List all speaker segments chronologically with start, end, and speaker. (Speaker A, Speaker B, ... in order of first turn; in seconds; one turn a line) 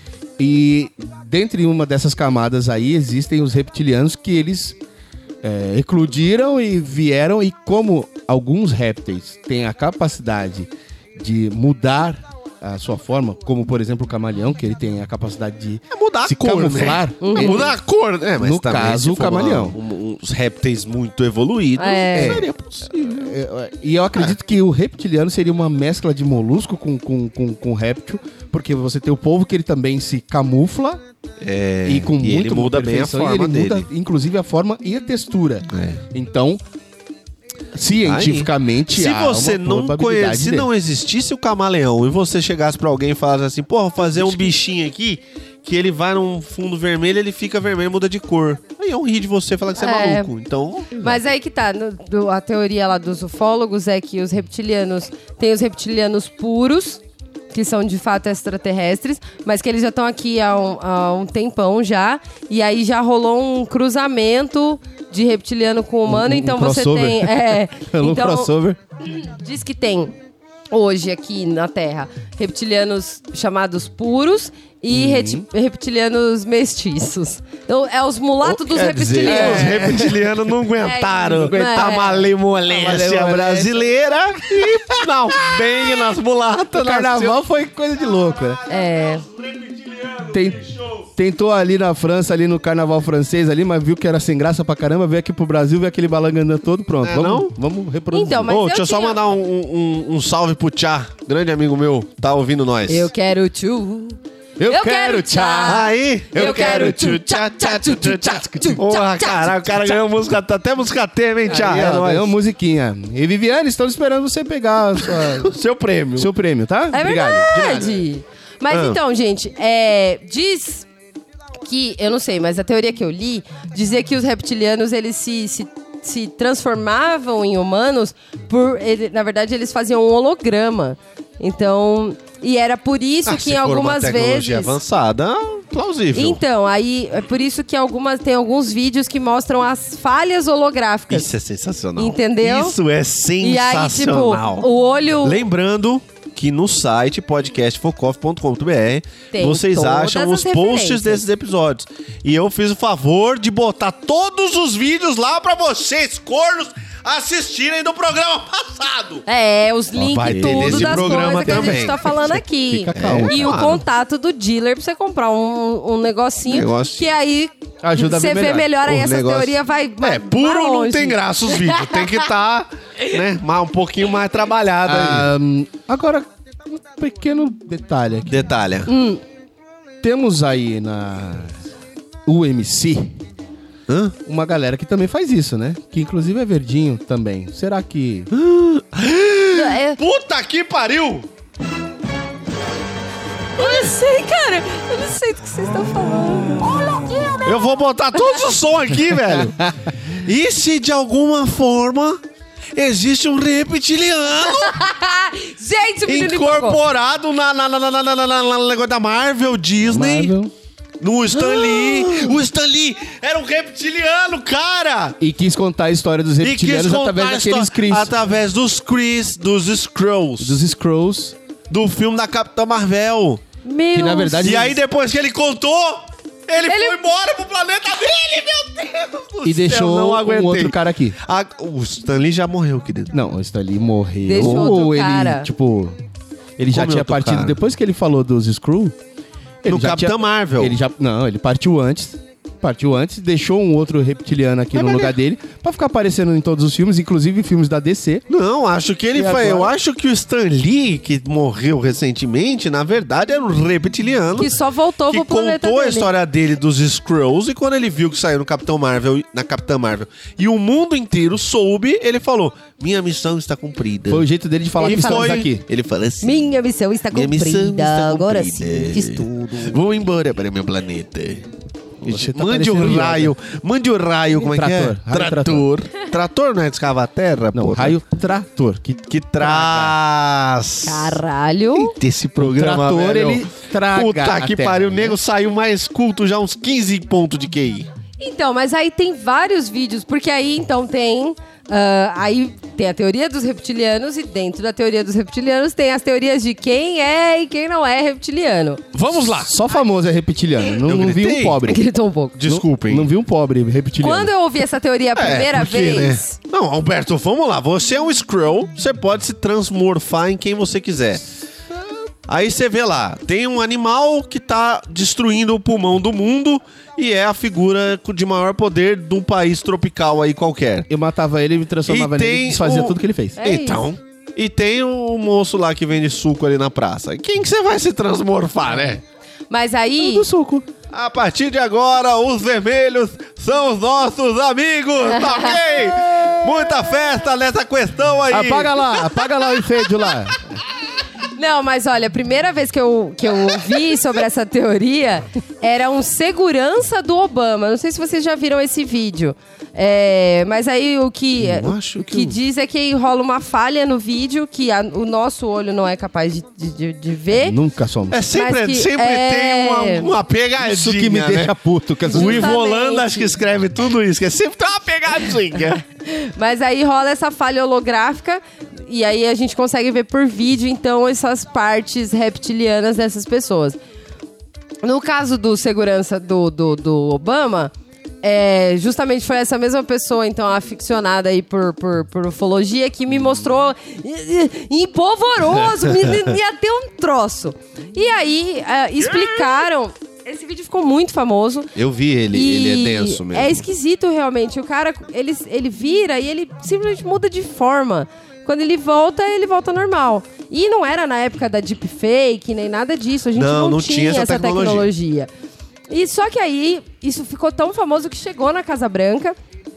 Speaker A: 0.4-4.8
Speaker A: 5.4-17.8
Speaker B: 15.9-23.3
Speaker C: 17.2-17.7
Speaker A: 18.4-19.8
Speaker C: 21.8-22.4
Speaker A: 22.1-31.0
Speaker B: 31.4-33.9
Speaker A: 31.9-36.6
Speaker B: 35.7-36.0
Speaker A: 37.7-40.7
Speaker B: 38.0-51.1
Speaker A: 44.2-44.5
Speaker C: 49.8-50.3
Speaker C: 51.0-57.0
Speaker C: 57.5-70.2
Speaker A: 66.1-68.8
Speaker C: 70.7-80.0
Speaker A: 74.9-75.5
Speaker A: 78.4-80.3
Speaker B: 78.7-87.4
Speaker C: 80.8-82.2
Speaker A: 81.3-82.0
Speaker A: 82.7-83.9
Speaker A: 84.4-85.0
Speaker A: 86.7-88.6
Speaker B: 88.7-91.1
Speaker C: 88.7-89.2
Speaker A: 90.3-98.5
Speaker B: 97.0-97.5
Speaker C: 98.1-99.2
Speaker B: 98.4-103.1
Speaker C: 102.9-110.0
Speaker A: 104.6-107.2
Speaker B: 105.6-112.3
Speaker A: 111.5-115.5
Speaker B: 115.1-116.3
Speaker A: 116.2-117.8
Speaker C: 116.9-120.9
Speaker B: 117.5-117.8
Speaker B: 118.7-119.0
Speaker C: 121.7-134.8
Speaker B: 133.3-136.4
Speaker C: 136.2-141.3
Speaker B: 141.1-144.7
Speaker C: 142.0-142.8
Speaker C: 143.4-145.4
Speaker B: 145.2-159.2
Speaker C: 149.3-151.2
Speaker C: 159.3-172.2
Speaker B: 160.0-162.3
Speaker A: 160.2-163.7
Speaker B: 162.9-163.8
Speaker B: 166.5-167.1
Speaker A: 167.8-168.7
Speaker B: 168.8-175.3
Speaker A: 174.8-178.4
Speaker B: 178.3-178.9
Speaker C: 178.9-179.2
Speaker A: 180.0-181.6
Speaker A: 182.3-183.1
Speaker B: 183.9-184.2
Speaker A: 184.2-188.3
Speaker B: 188.3-191.3
Speaker C: 189.5-190.0
Speaker C: 193.6-198.4
Speaker B: 197.4-202.2
Speaker A: 199.4-199.9
Speaker B: 202.8-204.8
Speaker C: 204.4-206.8
Speaker B: 206.1-210.3
Speaker A: 209.9-210.5
Speaker B: 211.0-215.2
Speaker C: 211.4-212.3
Speaker A: 215.2-218.1
Speaker B: 216.4-220.6
Speaker A: 220.4-221.3
Speaker B: 221.7-223.4
Speaker C: 223.6-224.5
Speaker A: 223.9-224.8
Speaker B: 224.4-233.1
Speaker C: 226.7-227.0
Speaker A: 229.4-231.2
Speaker A: 233.1-236.0
Speaker C: 234.2-235.5
Speaker B: 234.4-234.7
Speaker A: 236.6-238.9
Speaker B: 236.7-237.6
Speaker A: 239.6-248.2
Speaker B: 239.7-240.8
Speaker B: 244.7-245.2
Speaker B: 248.3-254.6
Speaker C: 249.2-249.7
Speaker C: 254.4-256.1
Speaker B: 255.1-264.3
Speaker A: 264.1-265.6
Speaker C: 264.8-265.4
Speaker B: 264.8-266.5
Speaker C: 266.2-269.8
Speaker B: 267.1-271.5
Speaker B: 272.0-278.0
Speaker A: 272.0-273.3
Speaker A: 274.4-275.7
Speaker A: 277.5-280.0
Speaker B: 279.1-281.2
Speaker C: 280.8-281.9
Speaker B: 281.7-287.9
Speaker A: 282.4-285.2
Speaker C: 288.2-298.8
Speaker B: 298.9-299.5
Speaker A: 299.1-301.8
Speaker B: 300.8-301.7
Speaker C: 301.7-302.4
Speaker B: 302.4-303.1
Speaker A: 302.4-304.3
Speaker C: 304.0-306.4
Speaker B: 305.2-311.2
Speaker B: 312.3-320.9
Speaker A: 320.9-323.4
Speaker B: 321.9-329.0
Speaker C: 323.4-323.8
Speaker C: 329.5-330.3
Speaker A: 330.0-330.7
Speaker B: 330.9-339.1
Speaker C: 335.1-335.6
Speaker A: 338.3-340.5
Speaker C: 341.4-357.6
Speaker B: 351.4-352.4
Speaker A: 357.4-358.2
Speaker B: 358.1-361.5
Speaker C: 358.3-360.1
Speaker A: 360.6-362.6
Speaker C: 362.1-363.4
Speaker B: 362.1-365.8
Speaker C: 366.0-373.8
Speaker C: 374.8-377.7
Speaker C: 378.2-391.7
Speaker B: 389.1-389.6
Speaker B: 391.8-393.6
Speaker C: 392.3-405.3
Speaker B: 403.4-404.9
Speaker C: 405.9-409.4